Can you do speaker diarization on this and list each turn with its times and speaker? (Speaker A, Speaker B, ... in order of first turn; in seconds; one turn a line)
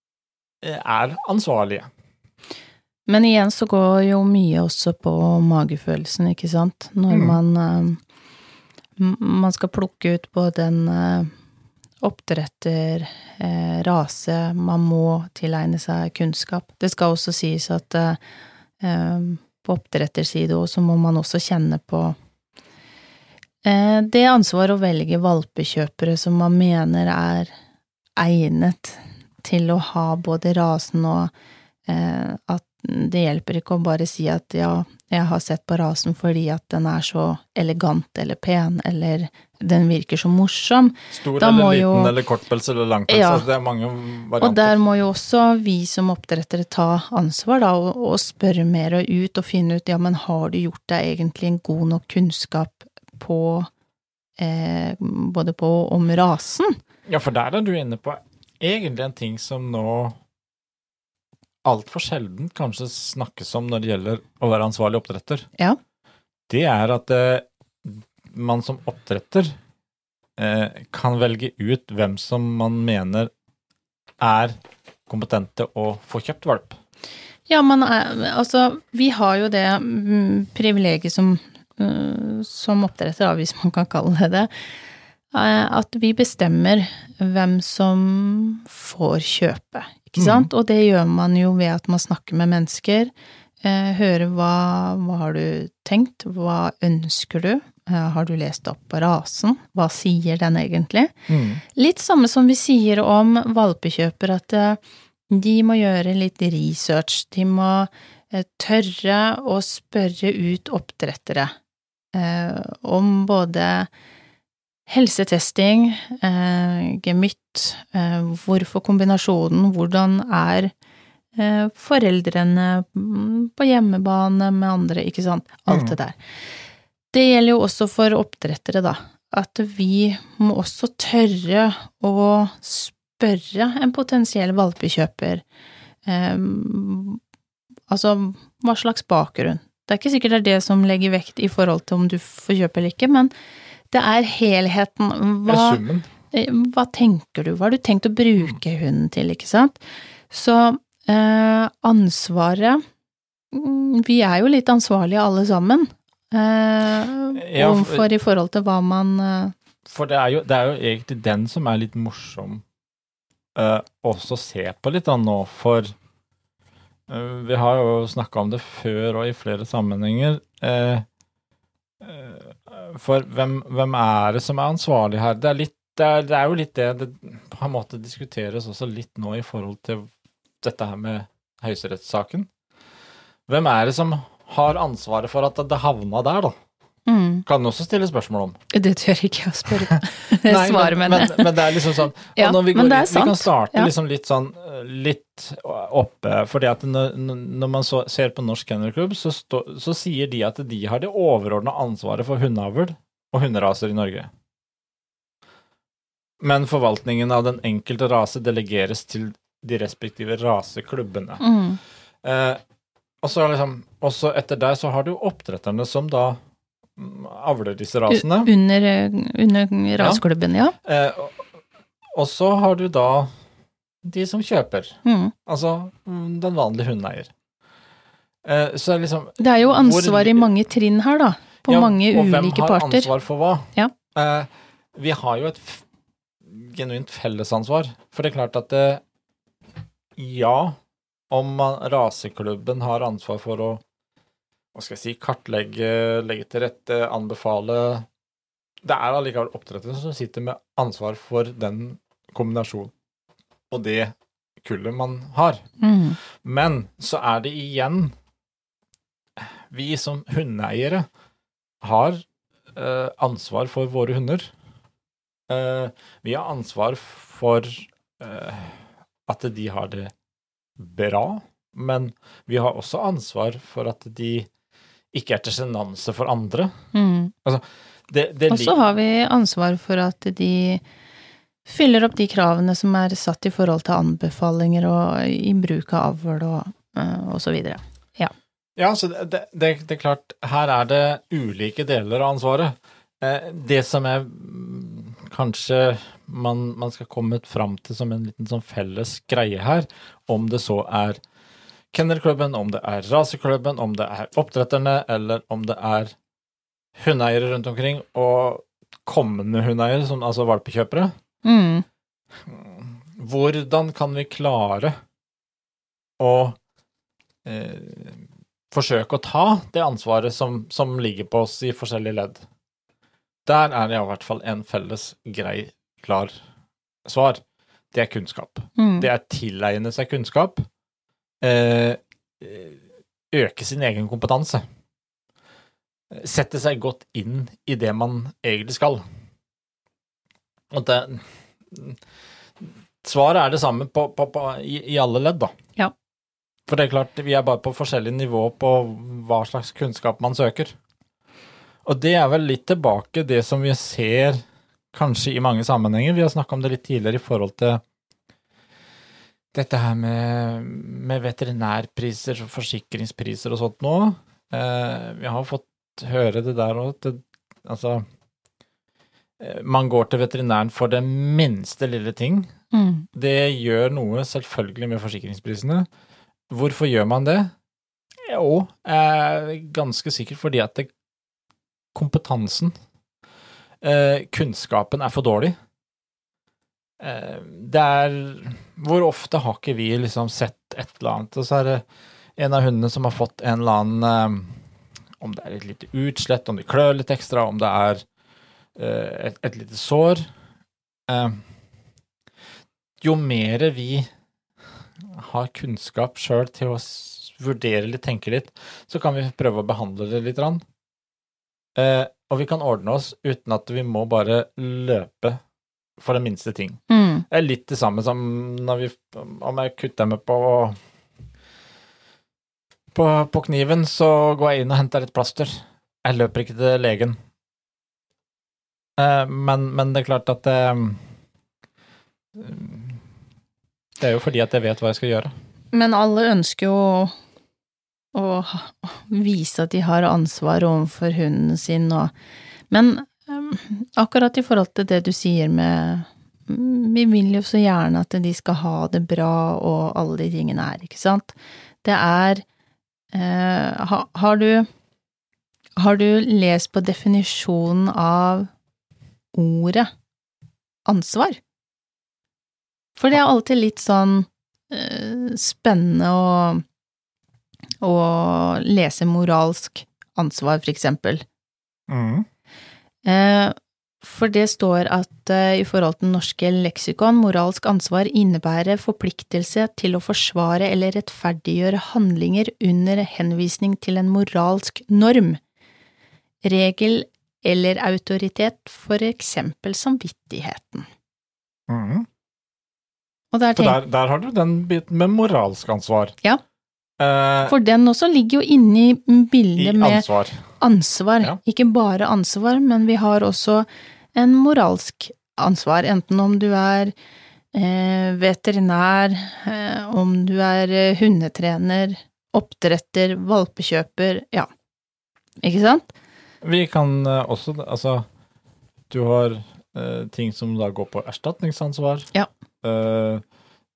Speaker A: 0.6-1.9
Speaker B: 3.1-8.0
Speaker A: 7.1-7.4
Speaker B: 9.0-11.3
Speaker B: 12.0-18.2
Speaker B: 18.8-22.2
Speaker B: 23.6-27.5
Speaker B: 28.2-31.3
Speaker B: 31.9-42.1
Speaker A: 41.1-44.8
Speaker B: 43.1-43.5
Speaker B: 44.4-53.7
Speaker B: 54.4-56.8
Speaker A: 57.1-60.1
Speaker A: 61.6-65.5
Speaker A: 66.5-69.5
Speaker A: 70.4-73.3
Speaker A: 74.2-76.8
Speaker B: 77.5-84.5
Speaker B: 85.3-93.1
Speaker A: 90.2-90.5
Speaker B: 93.6-101.2
Speaker A: 101.3-101.6
Speaker B: 101.8-111.5
Speaker B: 112.1-113.9
Speaker B: 114.9-120.7
Speaker B: 121.4-126.2
Speaker A: 125.7-126.0
Speaker B: 127.1-135.4
Speaker B: 136.1-137.2
Speaker B: 137.9-143.3
Speaker B: 143.9-152.8
Speaker A: 145.5-146.1
Speaker B: 153.5-159.6
Speaker A: 157.3-158.1
Speaker A: 159.8-162.6
Speaker A: 163.6-165.9
Speaker A: 167.1-171.1
Speaker A: 172.0-180.1
Speaker A: 180.6-182.5
Speaker A: 183.5-186.6
Speaker B: 187.1-187.4
Speaker A: 187.5-188.6
Speaker B: 188.7-191.8
Speaker A: 189.9-204.3
Speaker B: 192.3-193.9
Speaker A: 206.4-211.4
Speaker B: 211.4-211.8
Speaker A: 212.2-212.6
Speaker A: 213.2-216.4
Speaker A: 217.0-218.5
Speaker B: 218.1-220.8
Speaker A: 220.8-221.5
Speaker A: 222.2-223.3
Speaker A: 224.0-227.3
Speaker B: 225.1-225.3
Speaker A: 228.4-230.5
Speaker B: 229.4-233.1
Speaker A: 231.7-235.8
Speaker A: 236.4-239.0
Speaker A: 240.2-240.8
Speaker A: 241.3-243.8
Speaker A: 244.7-248.1
Speaker A: 248.8-252.9
Speaker A: 253.7-255.6
Speaker B: 255.8-256.2
Speaker A: 256.2-258.1
Speaker A: 259.4-261.1
Speaker A: 261.8-264.5
Speaker A: 265.5-270.1
Speaker A: 270.8-274.5
Speaker A: 275.1-276.8
Speaker B: 276.9-277.3
Speaker A: 277.4-278.8
Speaker B: 278.5-280.8
Speaker B: 281.7-288.3
Speaker A: 288.8-301.2
Speaker A: 301.9-306.1
Speaker A: 307.0-311.1
Speaker B: 311.4-311.9
Speaker A: 312.4-315.0
Speaker A: 316.2-316.6
Speaker A: 317.4-322.4
Speaker A: 323.4-326.3
Speaker A: 327.1-330.7
Speaker B: 328.8-329.1
Speaker A: 331.4-332.8
Speaker A: 333.3-334.6
Speaker A: 336.1-339.0
Speaker A: 340.7-342.0
Speaker A: 342.6-345.5
Speaker A: 346.7-350.8
Speaker A: 351.9-354.4
Speaker A: 354.9-357.8
Speaker A: 359.5-368.1
Speaker A: 369.4-372.5
Speaker B: 372.7-373.1
Speaker A: 373.1-375.9
Speaker A: 376.5-377.5
Speaker A: 378.2-380.9
Speaker A: 381.9-382.7
Speaker A: 383.8-385.6
Speaker A: 387.0-391.8
Speaker A: 392.4-394.6
Speaker A: 395.2-398.0
Speaker A: 398.8-400.3
Speaker A: 401.1-401.4
Speaker A: 403.0-404.1
Speaker A: 405.0-410.6
Speaker A: 411.8-415.4
Speaker A: 416.0-420.8
Speaker B: 416.9-417.2
Speaker A: 422.9-427.2
Speaker A: 429.0-431.0
Speaker A: 432.4-433.0
Speaker A: 434.0-435.3
Speaker B: 435.7-437.1
Speaker B: 438.1-442.1
Speaker B: 442.7-452.4
Speaker B: 453.1-454.7
Speaker B: 455.8-458.5
Speaker B: 459.3-459.9
Speaker B: 460.9-461.4
Speaker B: 463.0-466.6
Speaker B: 467.8-471.3
Speaker A: 471.9-472.3
Speaker B: 473.0-485.4
Speaker B: 486.4-490.9
Speaker A: 491.7-492.1
Speaker B: 493.3-493.8
Speaker A: 493.6-496.1
Speaker A: 497.0-497.6
Speaker B: 497.5-500.1
Speaker A: 499.6-500.5
Speaker B: 500.6-506.9
Speaker B: 507.5-514.5
Speaker B: 515.4-515.9
Speaker A: 516.4-518.1
Speaker A: 518.9-522.1
Speaker A: 522.6-523.2